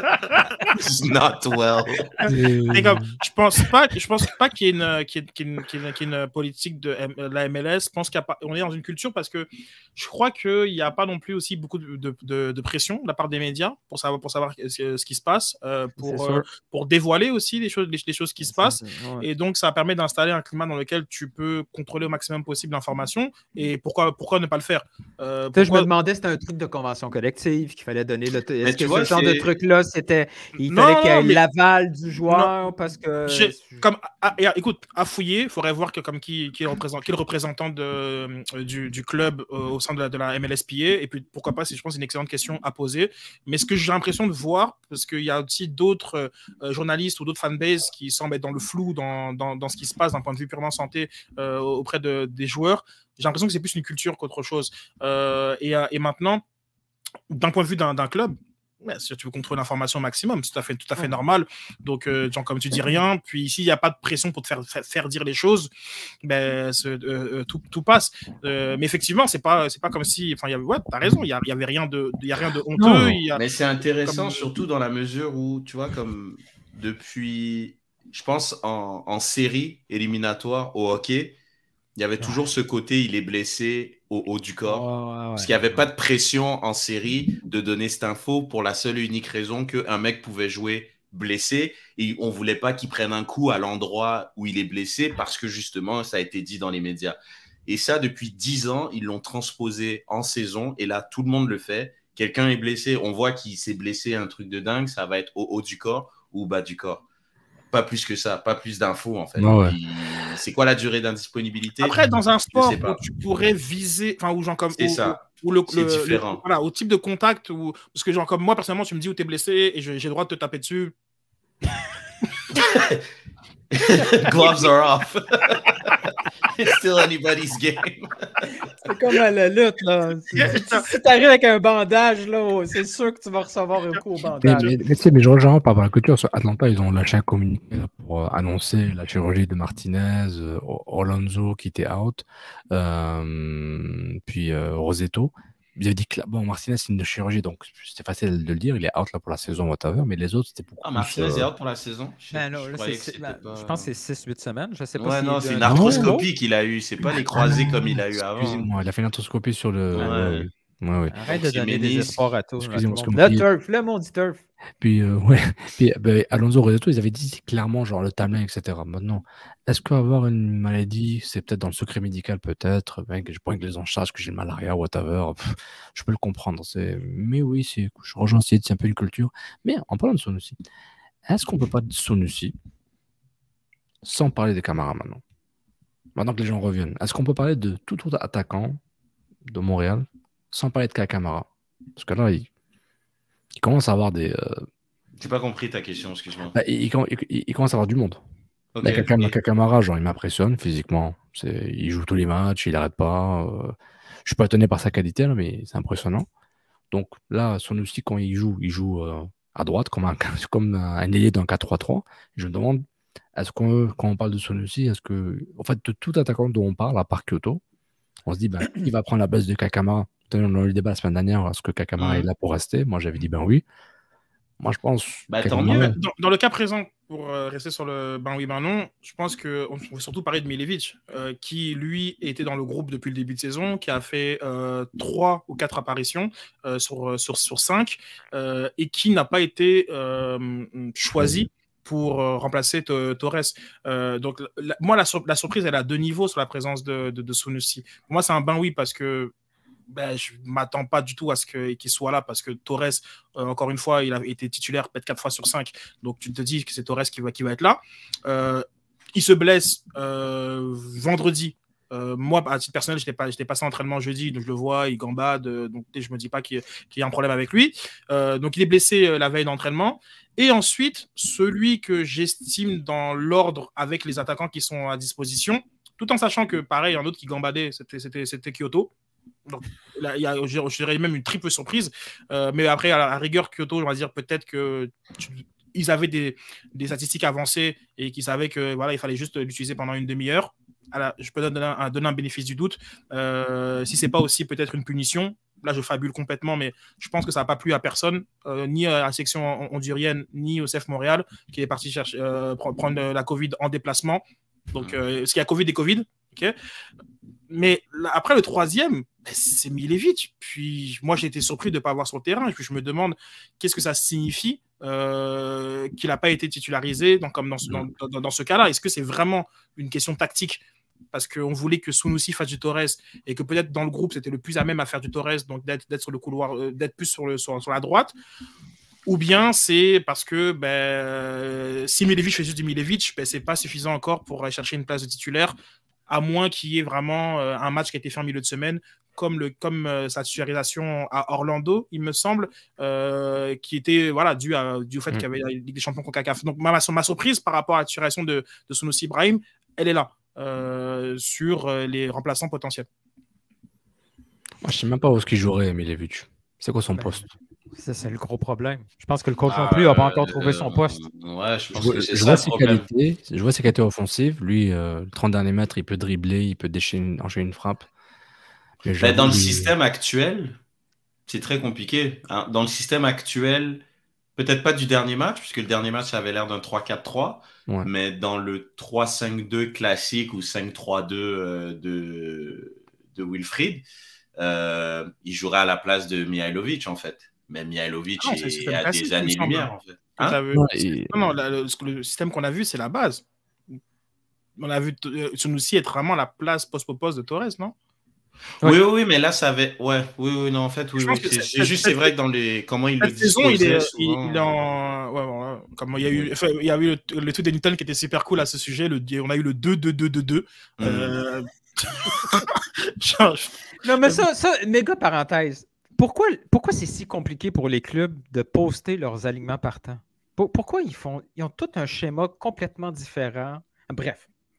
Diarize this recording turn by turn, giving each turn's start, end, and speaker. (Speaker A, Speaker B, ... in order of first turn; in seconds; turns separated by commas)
Speaker A: 0.8-2.1, Speaker B: 2.2-3.0, Speaker C: 2.7-25.9, Speaker D: 16.0-16.4, Speaker D: 18.4-19.3, Speaker D: 25.5-33.9, Speaker A: 28.6-29.5, Speaker C: 30.6-31.4, Speaker C: 32.2-32.5, Speaker C: 33.3-56.4, Speaker C: 57.3-65.7, Speaker C: 66.2-73.4, Speaker B: 72.8-73.2, Speaker A: 73.3-81.4, Speaker C: 74.0-74.5, Speaker A: 82.0-107.0, Speaker D: 84.6-85.5, Speaker A: 107.7-113.0, Speaker B: 109.4-109.7, Speaker C: 111.8-120.9, Speaker A: 114.7-116.4, Speaker A: 122.5-123.0, Speaker A: 123.7-125.9, Speaker A: 126.5-128.4, Speaker D: 128.6-134.8, Speaker C: 130.3-130.8, Speaker B: 134.4-151.5, Speaker A: 150.8-153.9, Speaker D: 152.3-156.3, Speaker A: 154.9-158.7, Speaker B: 155.6-156.1, Speaker B: 158.3-161.1, Speaker A: 159.9-160.5, Speaker D: 161.1-164.4, Speaker A: 161.3-162.3, Speaker B: 162.6-163.4, Speaker B: 164.8-180.6, Speaker B: 181.3-182.5, Speaker B: 184.0-185.2, Speaker B: 186.2-188.8, Speaker B: 189.5-192.5, Speaker B: 193.6-194.6, Speaker A: 195.2-196.5, Speaker B: 196.5-198.2, Speaker A: 198.7-199.3, Speaker B: 198.8-203.7, Speaker B: 204.2-206.3, Speaker B: 206.9-212.8, Speaker B: 213.3-217.6, Speaker B: 218.3-223.6, Speaker A: 222.0-222.3, Speaker B: 224.6-225.9, Speaker A: 225.3-225.9, Speaker C: 225.6-249.3, Speaker C: 249.9-258.6, Speaker C: 259.1-278.9, Speaker C: 279.5-306.5, Speaker C: 307.5-320.6, Speaker C: 321.1-328.1, Speaker C: 329.1-335.6, Speaker C: 336.1-352.9, Speaker B: 354.6-357.3, Speaker D: 356.9-357.2, Speaker D: 357.7-361.0, Speaker A: 359.5-362.9, Speaker B: 361.7-367.9, Speaker B: 368.8-369.7, Speaker A: 369.0-370.6, Speaker A: 371.3-373.8, Speaker A: 374.4-383.8, Speaker A: 384.4-390.4, Speaker C: 388.2-393.2, Speaker B: 390.5-391.1, Speaker C: 394.6-397.7, Speaker A: 398.6-404.5, Speaker C: 401.0-402.1, Speaker C: 403.0-414.3, Speaker A: 410.8-411.2, Speaker D: 413.8-424.3